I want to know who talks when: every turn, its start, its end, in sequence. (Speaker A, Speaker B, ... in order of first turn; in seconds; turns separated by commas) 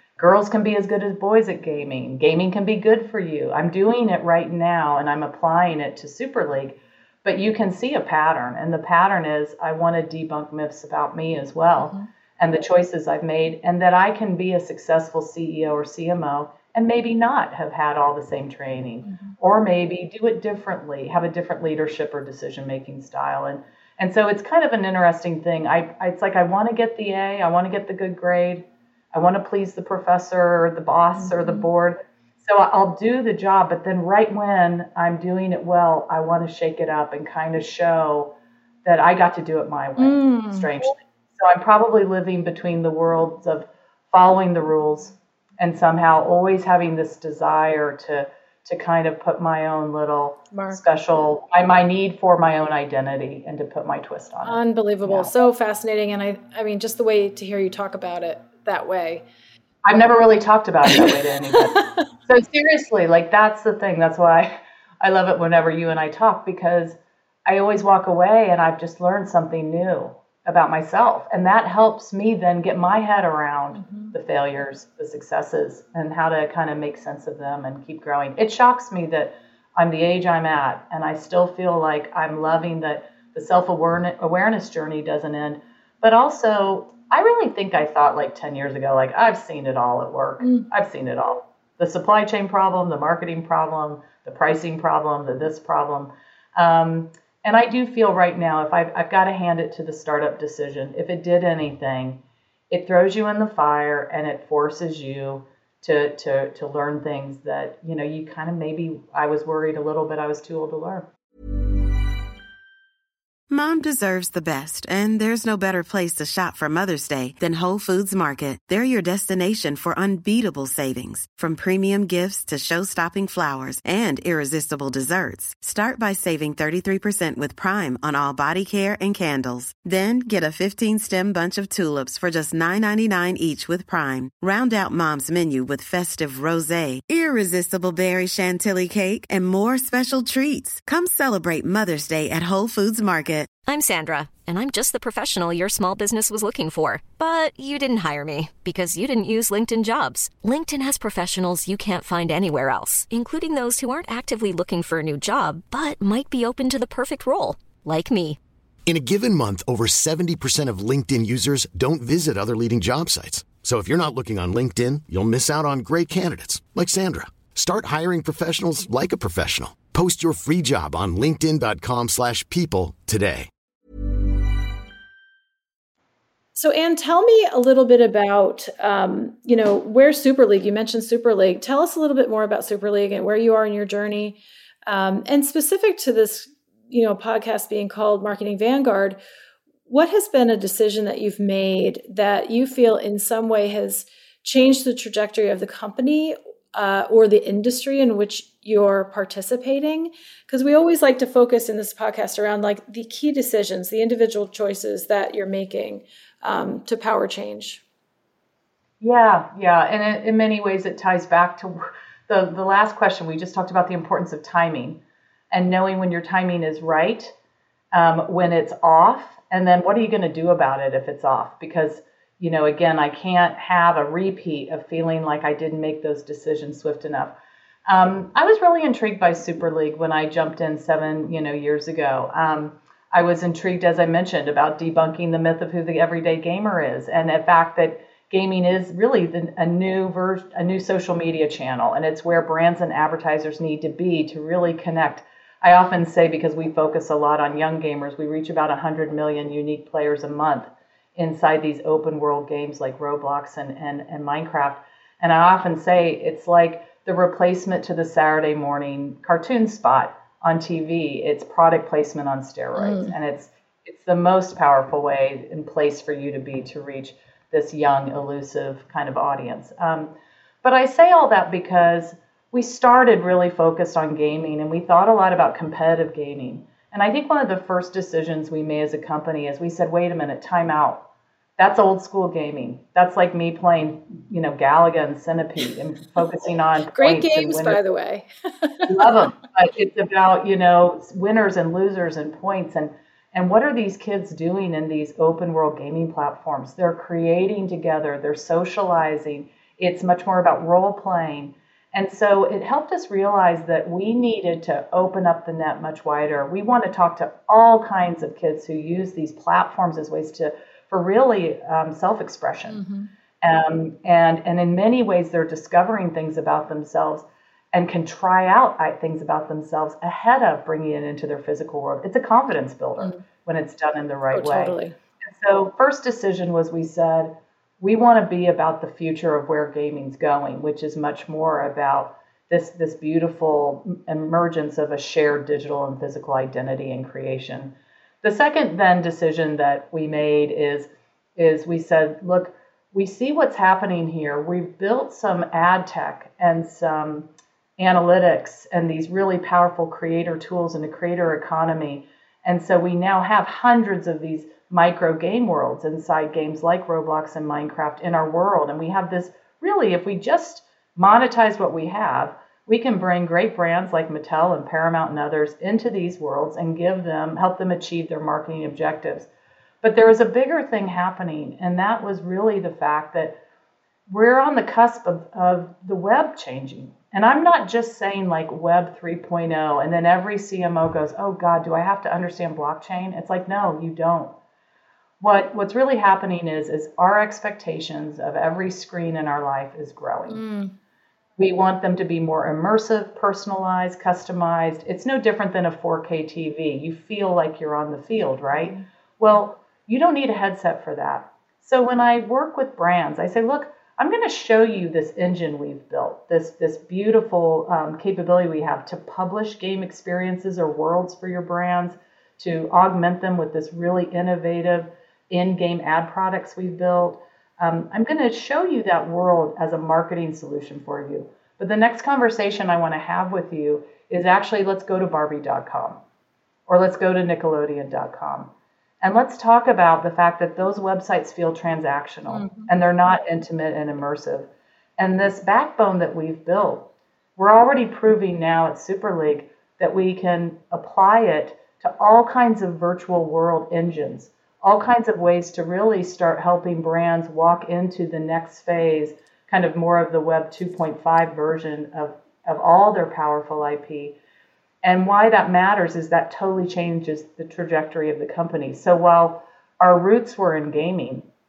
Speaker A: 0.2-55.3, Speaker B: 11.8-12.1, Speaker B: 19.0-19.4, Speaker B: 31.2-31.7, Speaker B: 40.0-40.7, Speaker B: 50.5-50.8, Speaker B: 54.4-59.2, Speaker A: 59.8-111.1, Speaker B: 60.9-62.0, Speaker B: 73.7-74.2, Speaker B: 90.4-90.7, Speaker C: 113.5-143.5, Speaker D: 143.7-158.4, Speaker E: 158.9-173.5, Speaker B: 176.6-189.2, Speaker B: 189.9-207.8, Speaker A: 209.0-215.0, Speaker A: 215.5-217.3, Speaker A: 217.9-227.3, Speaker A: 227.9-281.1, Speaker B: 262.8-263.1, Speaker A: 281.6-287.8, Speaker B: 286.9-289.0, Speaker A: 288.9-312.8, Speaker B: 312.7-313.1, Speaker A: 313.4-369.3, Speaker B: 324.3-324.9, Speaker A: 369.8-373.4, Speaker A: 374.1-384.3, Speaker A: 385.2-390.4, Speaker B: 390.3-390.7, Speaker A: 391.4-426.0, Speaker A: 426.7-454.2, Speaker B: 432.3-432.7, Speaker A: 454.8-461.3